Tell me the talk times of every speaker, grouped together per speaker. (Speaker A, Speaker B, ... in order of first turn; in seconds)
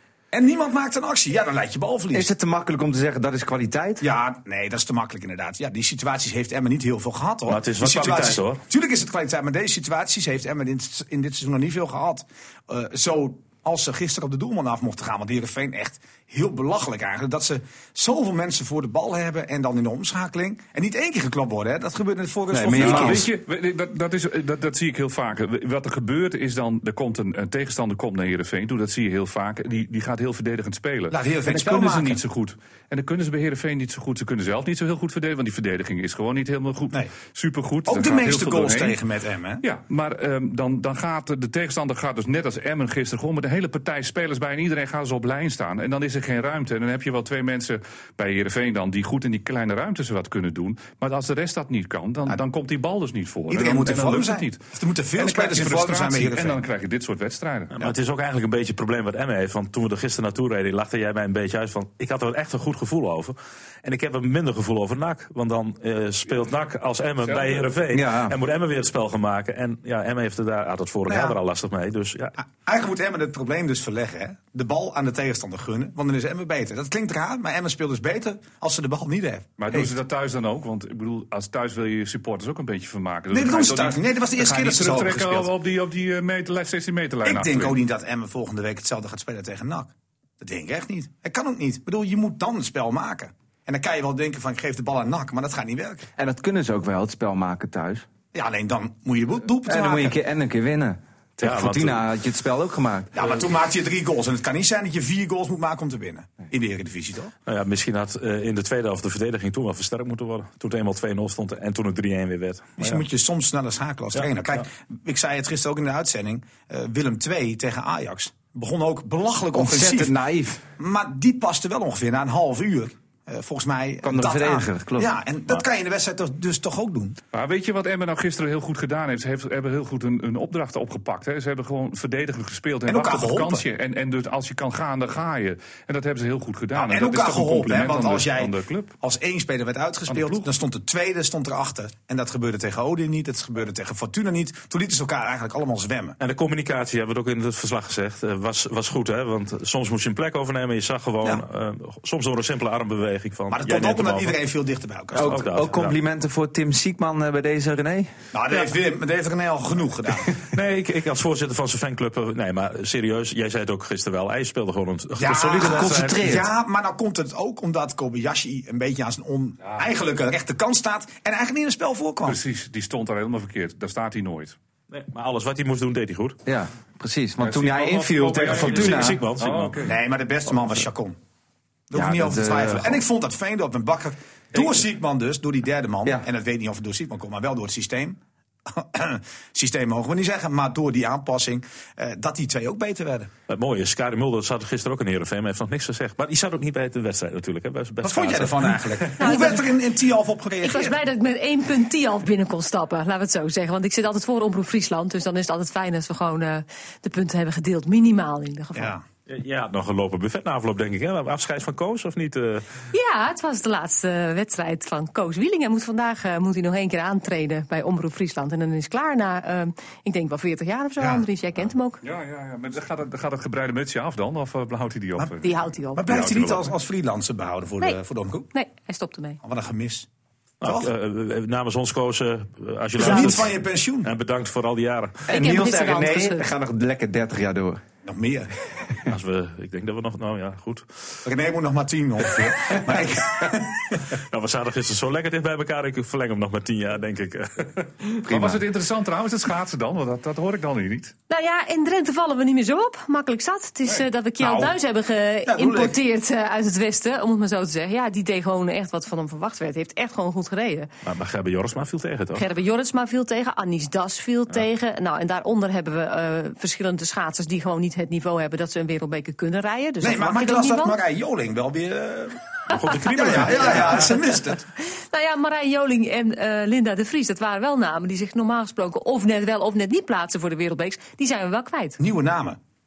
Speaker A: 0.3-2.3, 4.0-23.3, 31.1-32.2, 37.9-39.6, 53.5-56.6, 71.1-71.4, 72.4-79.9, 83.3-85.5, 87.2-96.1, 98.3-100.2, 103.1-107.3, 112.8-120.1, 120.8-127.2, 132.9-133.7, 136.8-146.2, 153.5-155.4, 158.3-160.4, 165.2-172.4, 179.8-181.2, 181.9-193.3, 198.0-201.0, 208.8-209.0, 225.9-228.5, 229.4-230.1, 230.6-230.9, 233.0-234.1, 238.0-238.5, 241.2-244.0, 254.4-254.8, 255.5-256.0, 270.0-274.6, 282.0-282.6
Speaker B: 2.1-4.1, 22.5-23.3, 67.9-68.3, 96.2-98.1, 99.7-103.2, 119.5-120.6, 124.0-125.1, 155.1-158.1, 165.6-166.5, 176.5-179.2, 181.9-183.0, 235.3-237.8
Speaker C: 7.5-8.6, 57.8-72.3, 101.4-102.0, 107.5-113.0, 114.2-114.6, 146.2-154.4, 155.2-156.0, 160.4-166.4, 174.9-176.4, 177.9-179.8, 193.5-199.1, 209.3-212.7, 230.6-235.3, 239.1-240.9, 244.2-248.6, 261.0-262.4, 272.7-274.2
Speaker D: 22.7-39.0, 39.6-54.6, 55.2-57.8, 67.2-67.8, 79.6-87.8, 127.3-138.9, 140.1-140.4, 172.2-174.6, 177.4-180.0, 222.0-226.7, 248.3-251.1
Speaker E: 199.2-199.7, 200.6-208.9, 212.9-222.0, 225.4-226.1, 228.5-229.4, 233.1-233.4, 235.3-236.5, 251.3-260.9, 262.3-271.0, 273.4-282.0